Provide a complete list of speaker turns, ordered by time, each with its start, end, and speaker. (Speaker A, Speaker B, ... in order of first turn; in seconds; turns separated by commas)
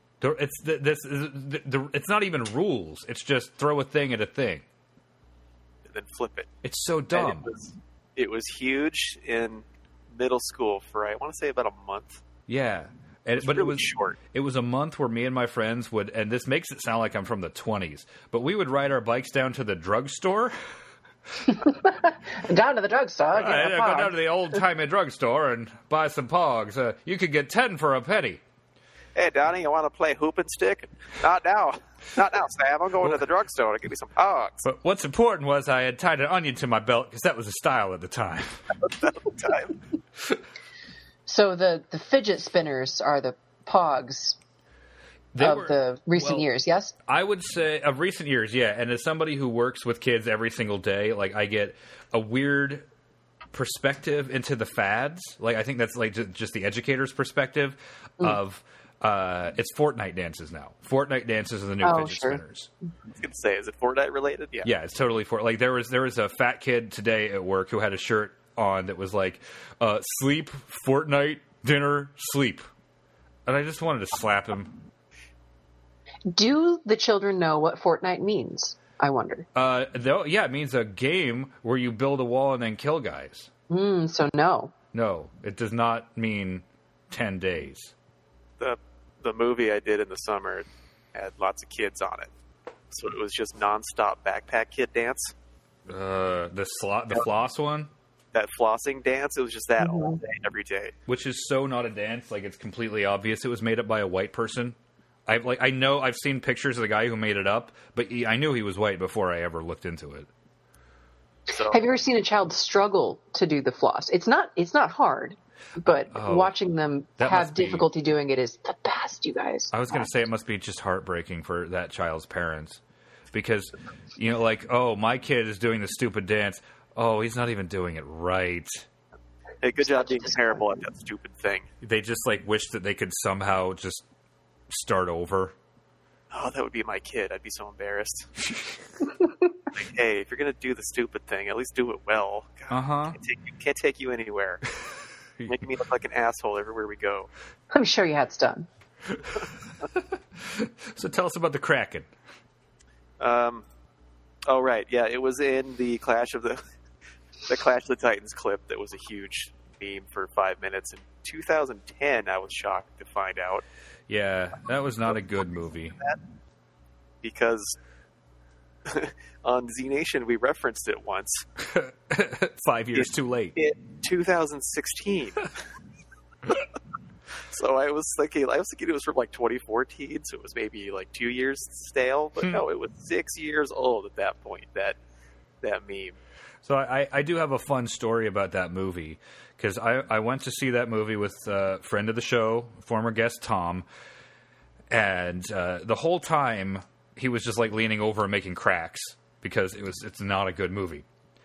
Speaker A: 0.2-4.6, Speaker B: 5.9-6.5, Speaker A: 6.6-7.5, Speaker B: 7.1-12.2, Speaker A: 12.5-20.5, Speaker B: 13.3-14.2, Speaker C: 21.5-24.1, Speaker A: 23.3-28.4, Speaker B: 29.1-34.6, Speaker A: 34.6-38.7, Speaker B: 38.8-39.8, Speaker C: 41.2-44.4, Speaker A: 45.3-46.5, Speaker C: 45.4-46.9, Speaker A: 47.1-52.9, Speaker A: 53.5-62.7, Speaker C: 61.8-62.4, Speaker B: 63.1-64.7, Speaker A: 64.6-72.6, Speaker A: 73.5-74.8, Speaker C: 76.3-79.5, Speaker A: 79.5-83.5, Speaker C: 83.7-84.7, Speaker A: 84.9-87.9, Speaker B: 88.6-92.3, Speaker B: 92.9-95.3, Speaker A: 95.9-97.9, Speaker B: 98.3-100.9, Speaker C: 99.8-100.2, Speaker A: 101.1-110.3, Speaker B: 111.5-111.8, Speaker C: 111.7-120.1, Speaker A: 115.8-116.5, Speaker A: 117.2-117.9, Speaker A: 119.7-122.8, Speaker A: 123.3-128.8, Speaker B: 129.6-131.7, Speaker C: 129.8-130.6, Speaker A: 131.8-134.0, Speaker A: 134.7-135.5, Speaker B: 136.3-138.3, Speaker B: 139.7-144.6, Speaker A: 142.7-143.2, Speaker B: 145.5-147.3, Speaker C: 147.7-148.7, Speaker A: 149.9-152.1, Speaker B: 153.2-153.6, Speaker B: 154.4-156.6, Speaker B: 157.5-163.6, Speaker A: 164.1-166.0, Speaker B: 167.2-167.8, Speaker B: 168.8-171.4, Speaker A: 171.7-173.6, Speaker B: 172.9-175.5, Speaker B: 177.5-185.0, Speaker B: 185.6-186.2, Speaker A: 186.6-193.8, Speaker A: 194.9-201.0